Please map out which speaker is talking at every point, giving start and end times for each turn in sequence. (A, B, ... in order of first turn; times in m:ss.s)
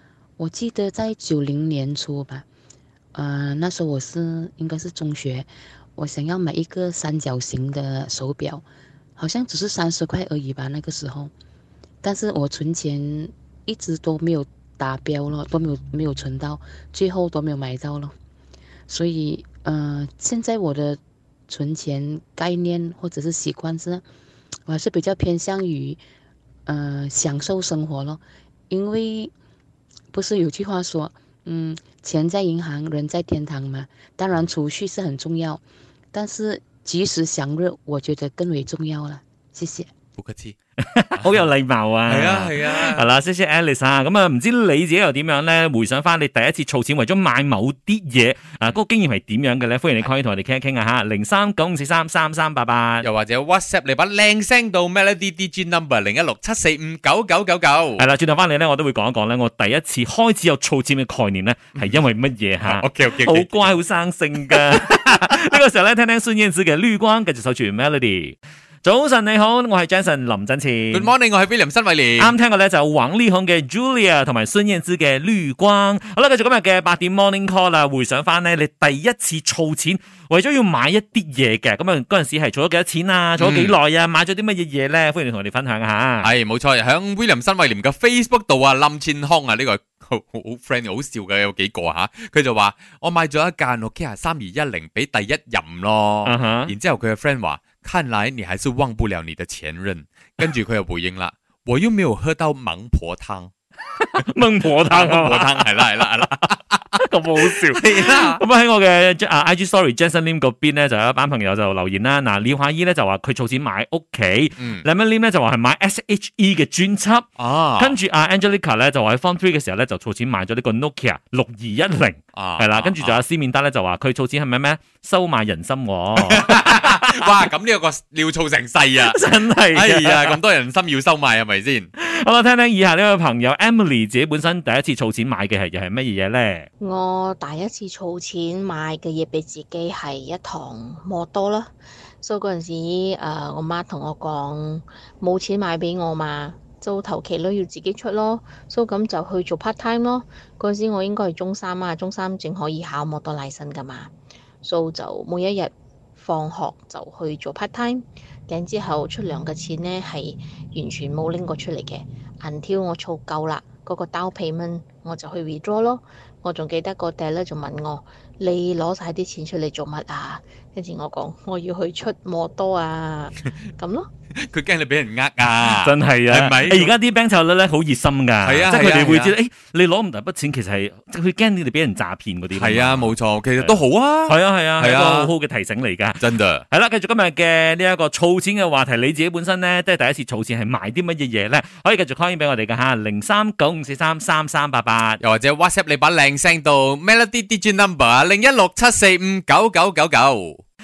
0:00.4-0:02.4 A
0:03.2-0:08.6 A
0:09.2-0:11.3 A
0:12.0-0:18.1 A
0:18.9-0:24.0 A
0:24.7-0:26.0 A
0:26.7-0:29.3 A
0:30.1-0:39.9 A
0:40.2-0:40.6 B
0:40.8-0:53.1 C
0:42.1-0:43.0 B
0:53.0-0:58.0 B
0:58.0-1:11.1 C
1:02.6-1:03.7 B
1:10.9-1:12.3 B
1:12.2-1:26.3 C
1:23.4-1:23.7 B
1:26.2-1:43.5 B
1:36.2-1:36.7 C
1:44.0-1:46.5 C
1:44.9-1:47.0 B
1:47.0-2:07.0 C
1:47.7-1:48.4 B
1:54.6-1:54.9 B
1:57.4-1:57.9 B
2:02.3-2:03.2 B
2:06.3-2:09.2 B
2:09.0-2:10.4 C
2:09.7-2:11.9 B
2:12.0-2:16.7 C
2:16.8-2:54.1 D
2:54.4-2:56.9 B
2:55.7-3:15.2 C
2:58.4-2:59.3 B
3:02.6-3:05.3 B
3:06.2-3:06.6 B
3:15.2-3:20.6 B